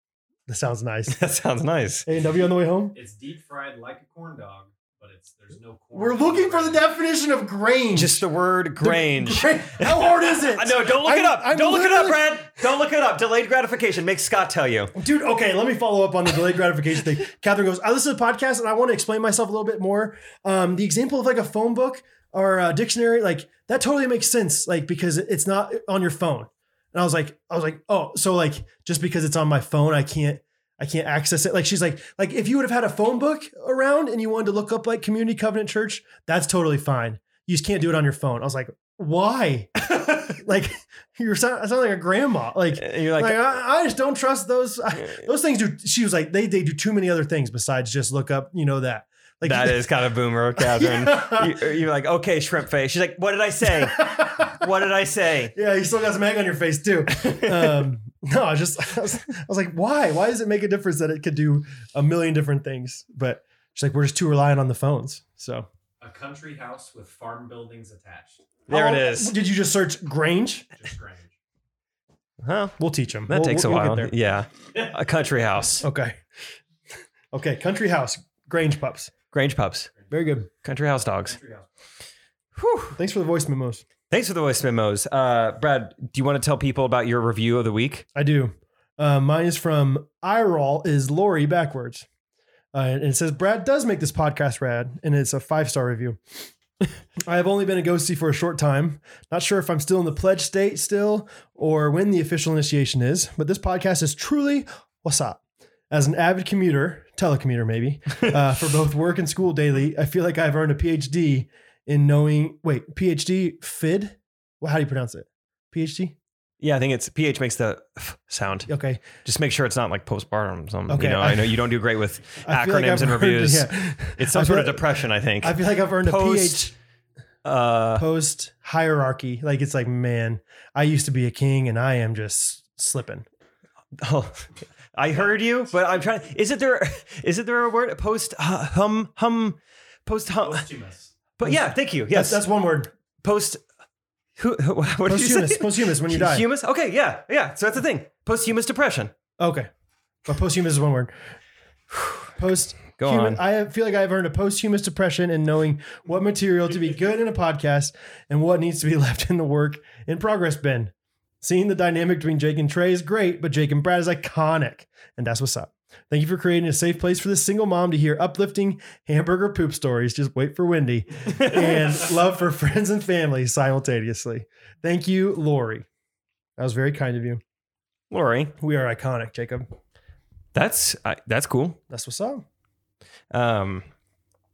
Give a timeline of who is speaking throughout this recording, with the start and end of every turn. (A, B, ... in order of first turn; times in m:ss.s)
0:00.5-0:01.2 A
0:01.1-0:02.0 B
0:02.0-0:02.9 A
0:02.9-0:06.9 C
0:05.9-0:08.2 A
0:07.9-0:14.9 B
0:08.8-0:12.4 A
0:15.0-0:49.8 A
0:42.7-0:43.4 B
0:49.4-0:55.5 B
0:50.6-0:51.6 A
0:54.0-0:54.6 A
0:55.5-1:05.7 A
0:57.1-0:57.9 B
1:06.0-1:08.5 C
1:08.7-1:09.3 B
1:08.7-1:10.7 A
1:10.8-1:11.3 C
1:12.4-1:12.8 B
1:12.8-1:14.1 A
1:13.3-1:15.8 B
1:15.8-1:16.2 A
1:17.3-1:19.1 A
1:19.3-1:19.9 B
1:20.1-1:20.5 A
1:20.6-1:21.4 B
1:21.2-1:21.7 C
1:22.6-1:23.0 B
1:22.9-1:23.8 A
1:24.1-1:28.0 B
1:28.1-1:32.1 A
1:32.7-1:36.2 A
1:37.3-1:45.4 A
1:45.9-1:56.2 A
1:56.6-1:58.7 B
1:58.7-1:59.0 A
1:59.2-2:06.7 B
2:00.9-2:01.6 A
2:02.4-2:04.8 A
2:05.4-2:06.7 A
2:07.4-2:08.0 B
2:08.0-2:13.3 A
2:14.0-2:20.6 B
2:20.4-2:21.1 C
2:21.4-2:22.4 B
2:21.4-2:22.9 A
2:23.2-2:23.6 B
2:24.4-2:29.1 B
2:25.0-2:26.4 A
2:29.4-2:29.7 A
2:30.2-2:31.1 A
2:31.9-2:32.2 B
2:32.4-2:55.9 A
2:33.0-2:33.4 B
2:51.3-2:52.0 B
2:56.6-2:57.4 A
2:58.1-2:58.5 B
2:58.6-2:59.7 A
3:00.5-3:01.8 B
3:01.9-3:02.4 A
3:03.3-3:03.8 B